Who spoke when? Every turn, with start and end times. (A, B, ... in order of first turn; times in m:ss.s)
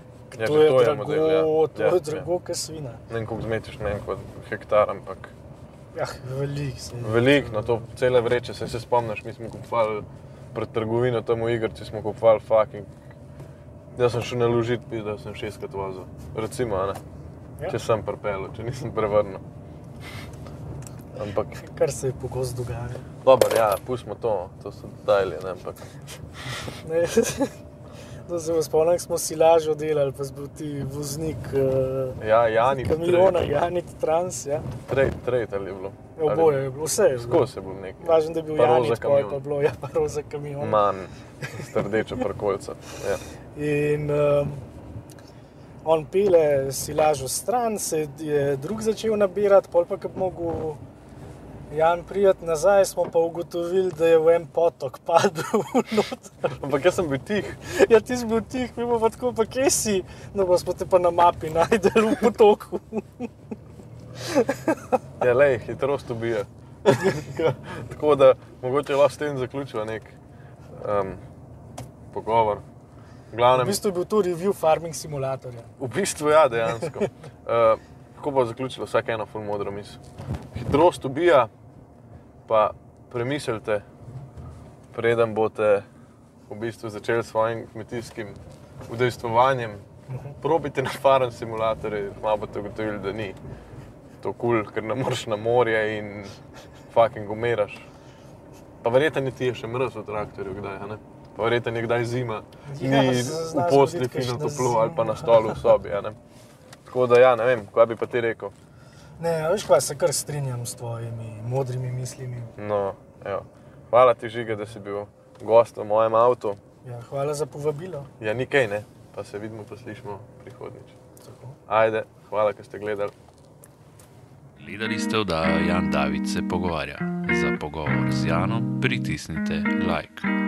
0:00.3-0:03.0 A
0:00.4-0:02.3 B
0:03.1-0:05.3 B
0:05.9-0:07.8 A
0:07.0-0:12.9 B
0:14.0-0:17.0 B
0:17.7-0:19.4 B
0:21.2-0:21.6 B
0:21.6-0:23.1 A
0:23.2-0:25.9 B
0:26.7-0:27.6 A
0:28.3-0:34.7 A
0:32.2-0:33.4 B
0:34.8-0:36.6 B
0:36.2-0:37.5 A
0:37.2-0:39.4 B
0:38.0-0:40.8 A
0:40.6-0:43.2 B
0:41.4-0:41.9 A
0:43.6-0:44.6 A
0:45.8-0:50.8 A
0:51.7-0:56.6 A
0:56.6-0:57.6 B
0:57.6-1:03.3 A
1:04.2-1:04.8 A
1:05.2-1:10.2 B
1:10.7-1:11.2 B
1:12.1-1:12.6 B
1:13.3-1:13.8 B
1:13.5-1:15.7 A
1:15.8-1:20.0 B
1:20.5-1:21.5 B
1:22.5-1:23.8 B
1:24.9-1:25.9 B
1:26.5-1:29.8 B
1:30.1-1:30.4 A
1:30.4-1:33.4 B
1:34.2-1:36.4 B
1:36.9-1:37.9 B
1:38.8-1:46.2 B
1:42.7-1:45.7 A
1:46.9-1:48.5 B
1:49.2-1:52.5 A
1:52.6-1:56.6 B
1:56.8-1:58.1 A
1:58.2-2:01.0 B
2:01.2-2:01.6 A
2:01.7-2:03.1 B
2:04.6-2:10.3 C